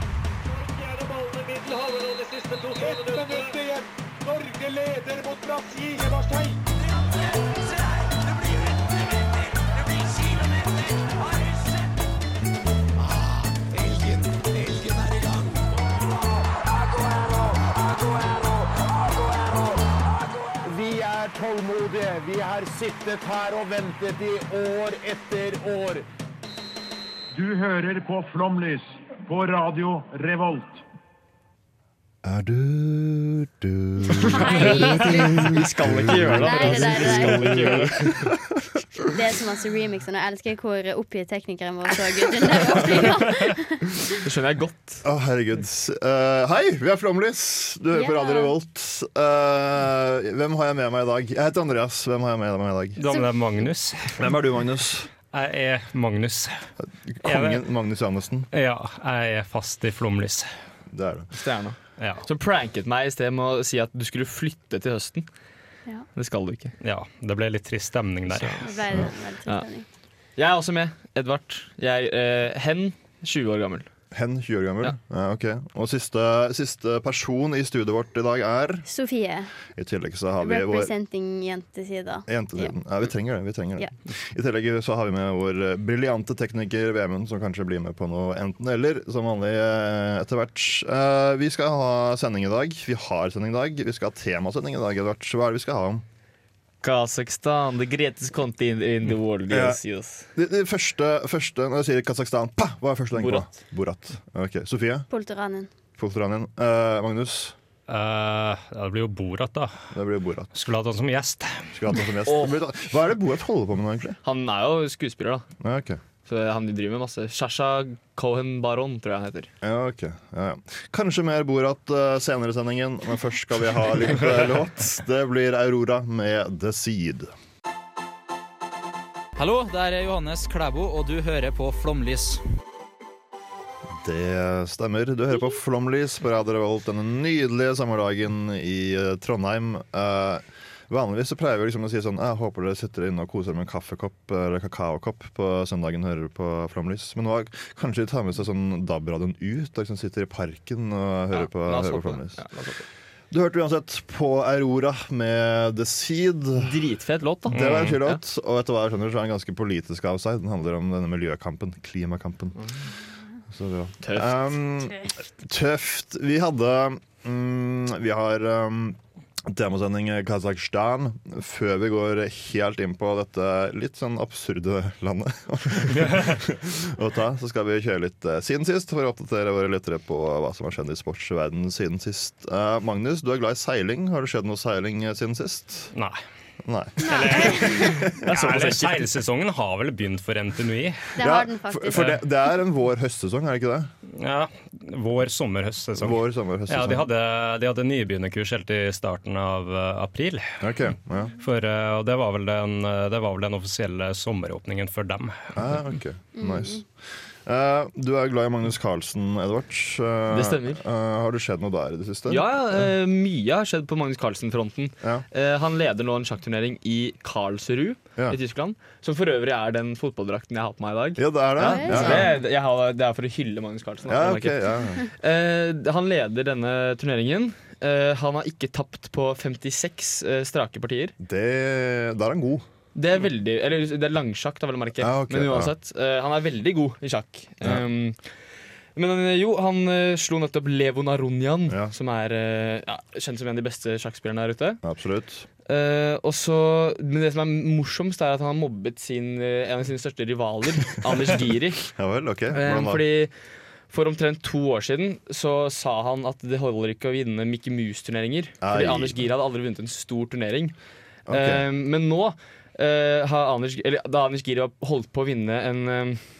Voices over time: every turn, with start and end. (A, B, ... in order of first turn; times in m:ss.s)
0:00.7-0:06.6 A
0:13.0-0:15.6 B
0:16.5-0:26.0 B
0:27.3-0:30.8 C
0:32.2-0:39.1 D
0:34.2-0:38.3 E
0:34.2-0:35.6 F
0:36.4-0:37.8 F
0:39.1-0:44.0 F
0:44.2-0:45.0 E
0:45.0-0:53.0 D
0:47.9-0:48.5 F
0:53.0-0:54.3 G
0:54.2-0:55.1 D
0:55.3-0:56.6 G
0:56.8-0:58.5 D
0:57.2-0:57.6 G
0:58.5-1:00.5 G
1:00.9-1:01.3 D
1:01.4-1:05.3 E
1:02.0-1:02.2 G
1:06.1-1:06.7 E
1:06.8-1:08.7 G
1:08.3-1:09.6 E
1:08.6-1:09.8 F
1:10.4-1:13.9 E
1:14.1-1:18.9 D
1:18.9-1:19.5 F
1:19.8-1:20.9 D
1:20.4-1:22.7 F
1:22.3-1:36.0 D
1:36.8-1:40.2 E
1:39.5-1:39.8 D
1:40.3-1:45.1 D
1:43.1-1:43.5 E
1:45.1-1:45.7 F
1:46.0-1:47.5 D
1:47.9-1:49.9 G
1:49.9-1:50.5 D
1:50.5-1:51.7 G
1:51.7-1:54.2 D
1:52.2-1:52.5 E
1:54.2-1:55.5 E
1:55.6-1:56.0 D
1:56.2-1:59.5 E
1:59.6-2:07.3 D
2:09.4-2:12.4 H
2:13.9-2:32.4 D
2:31.3-2:32.8 E
2:33.3-2:36.8 D
2:36.6-2:38.2 E
2:37.5-2:42.6 D
2:37.5-2:38.0 G
2:43.5-3:05.9 D
2:44.0-2:44.5 E
2:56.0-2:56.3 G
3:06.6-3:08.1 D
3:07.0-3:11.1 G
3:07.0-3:08.0 F
3:08.2-3:09.1 E
3:11.2-3:12.3 F
3:11.2-3:13.9 D
3:14.2-3:20.5 G
3:16.0-3:17.1 D
3:20.6-3:21.3 D
3:21.4-3:25.5 G
3:25.5-3:26.9 D
3:26.4-3:26.8 F
3:27.4-3:32.8 D
3:30.3-3:30.8 E
3:32.3-3:51.2 E
3:41.2-3:42.3 D
3:41.7-3:42.4 F
3:44.0-3:45.1 D
3:51.2-3:52.6 D
3:52.9-3:58.2 E
3:55.0-3:55.7 D
3:59.0-4:04.8 E
4:01.7-4:01.9 D
4:04.8-4:05.4 D
4:05.6-4:11.9 E
4:11.9-4:13.0 D
4:12.5-4:13.3 E
4:13.9-4:20.7 E
4:18.6-4:19.2 D
4:21.3-4:21.6 D
4:21.3-4:26.2 E